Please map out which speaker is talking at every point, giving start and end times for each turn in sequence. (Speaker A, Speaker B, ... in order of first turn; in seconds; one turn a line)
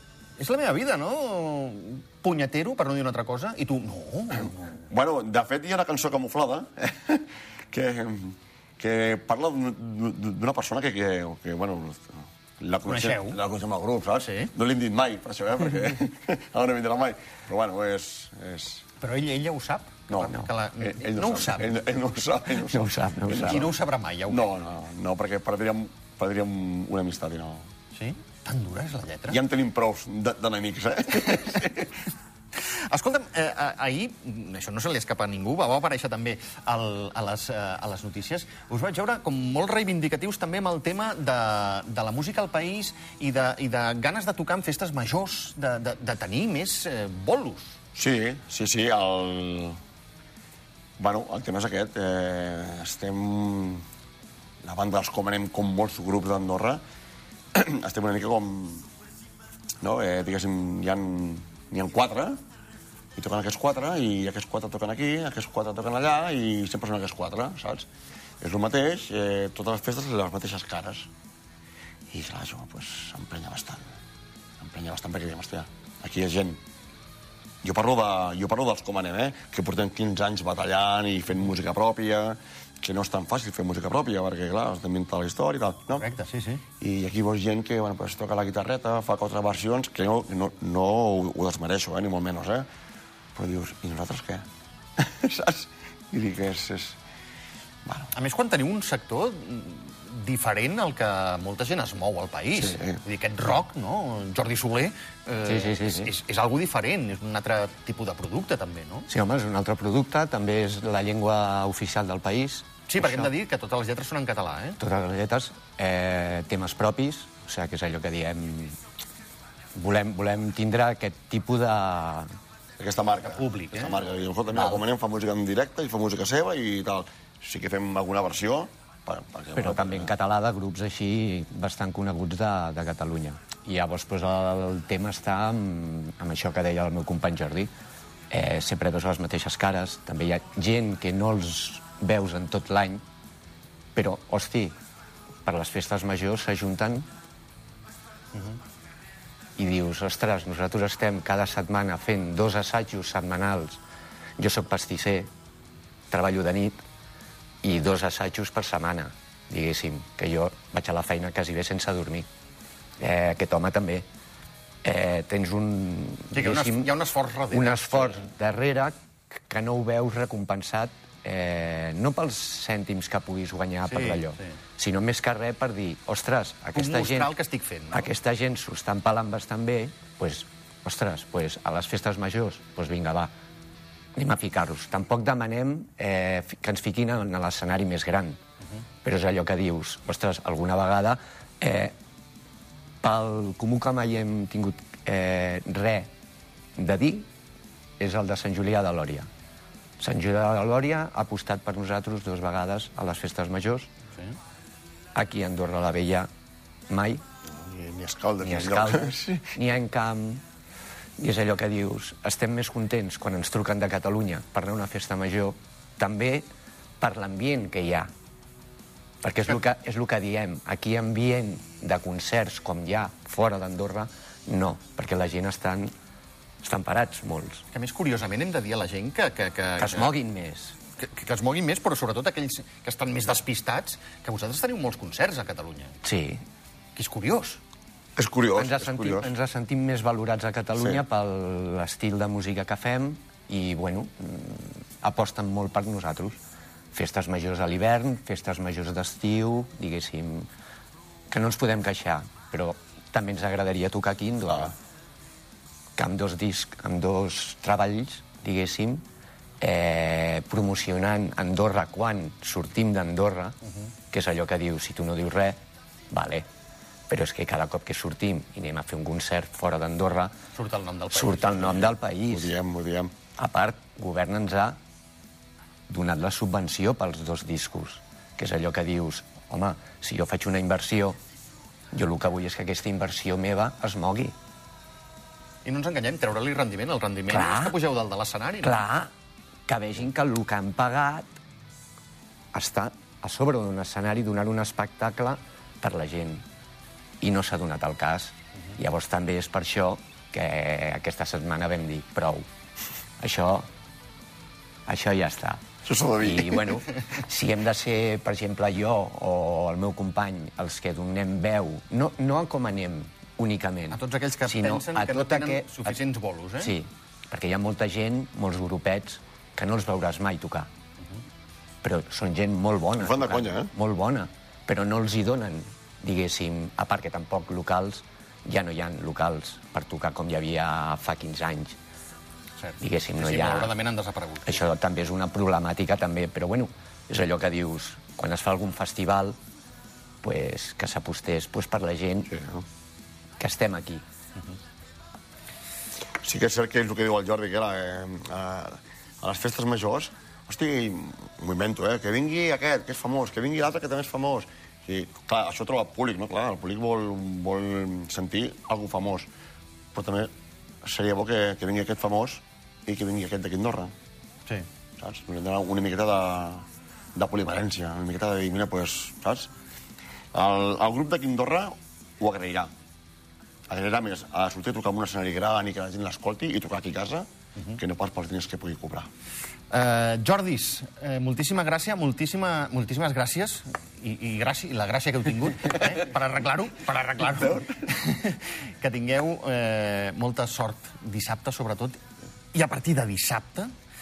Speaker A: 0.4-4.8
Speaker B: 4.9-18.9
Speaker A: 12.8-13.4
Speaker A: 14.2-14.5
Speaker A: 19.0-21.7
Speaker B: 20.1-23.7
Speaker C: 22.5-23.7
Speaker A: 23.4-24.5
Speaker B: 24.3-27.7
Speaker A: 27.9-29.4
Speaker B: 29.3-32.0
Speaker A: 32.7-47.8
Speaker B: 47.9-49.8
Speaker B: 51.0-53.8
Speaker B: 54.6-56.8
Speaker B: 57.5-58.9
Speaker B: 59.8-62.4
Speaker B: 63.1-67.9
Speaker B: 68.4-71.1
Speaker B: 72.1-73.9
Speaker B: 74.6-76.6
Speaker B: 77.6-86.0
Speaker A: 86.0-86.6
Speaker B: 86.8-92.7
Speaker B: 93.3-94.4
Speaker B: 95.0-97.0
Speaker B: 97.8-98.1
Speaker A: 98.1-109.1
Speaker C: 105.4-106.1
Speaker C: 109.1-113.3
Speaker A: 112.9-114.8
Speaker C: 114.8-118.8
Speaker C: 119.7-122.3
Speaker B: 122.8-130.1
Speaker A: 123.2-124.1
Speaker C: 129.5-137.7
Speaker C: 138.3-143.0
Speaker C: 143.9-144.7
Speaker C: 145.4-147.1
Speaker C: 149.6-153.8
Speaker C: 154.4-155.3
Speaker C: 156.1-156.8
Speaker C: 157.6-162.2
Speaker C: 163.0-164.0
Speaker C: 164.8-166.9
Speaker A: 166.3-168.2
Speaker C: 167.5-177.3
Speaker A: 173.9-174.2
Speaker A: 176.7-178.1
Speaker C: 177.9-183.3
Speaker C: 184.2-188.4
Speaker C: 189.0-191.9
Speaker C: 193.0-196.1
Speaker C: 196.8-197.3
Speaker C: 198.0-199.3
Speaker C: 200.0-203.9
Speaker C: 205.1-206.3
Speaker C: 206.9-207.2
Speaker B: 207.5-209.5
Speaker C: 208.4-210.4
Speaker C: 211.2-216.4
Speaker C: 217.0-218.1
Speaker C: 219.2-225.9
Speaker C: 226.6-227.6
Speaker A: 227.7-230.1
Speaker C: 229.8-230.8
Speaker A: 231.0-235.9
Speaker C: 236.0-236.4
Speaker A: 236.9-237.6
Speaker B: 238.2-239.3
Speaker C: 238.5-246.4
Speaker B: 240.8-241.0
Speaker C: 246.9-250.5
Speaker C: 251.3-254.8
Speaker C: 255.9-259.0
Speaker C: 259.6-263.5
Speaker C: 264.1-265.6
Speaker C: 266.1-266.4
Speaker C: 267.1-270.3
Speaker A: 270.5-271.9
Speaker C: 271.1-272.5
Speaker B: 272.3-273.1
Speaker C: 273.4-274.8
Speaker C: 275.9-281.2
Speaker C: 281.9-284.3
Speaker A: 285.6-288.8
Speaker C: 287.3-287.7
Speaker C: 288.6-289.1
Speaker C: 289.7-291.3
Speaker C: 292.5-296.4
Speaker C: 297.2-302.4
Speaker C: 303.2-303.7
Speaker C: 304.9-305.6
Speaker B: 305.8-306.8
Speaker C: 306.2-316.0
Speaker A: 313.9-316.7
Speaker C: 316.6-320.7
Speaker C: 321.8-331.7
Speaker B: 323.0-323.7
Speaker A: 332.6-334.6
Speaker C: 332.8-333.7
Speaker C: 334.4-339.4
Speaker C: 340.2-342.4
Speaker B: 342.3-342.6
Speaker C: 343.4-344.0
Speaker B: 346.2-359.3
Speaker B: 359.9-360.3
Speaker B: 360.8-363.9
Speaker B: 365.0-369.5
Speaker B: 370.3-372.7
Speaker B: 373.7-379.1
Speaker A: 379.7-392.0
Speaker A: 392.5-393.7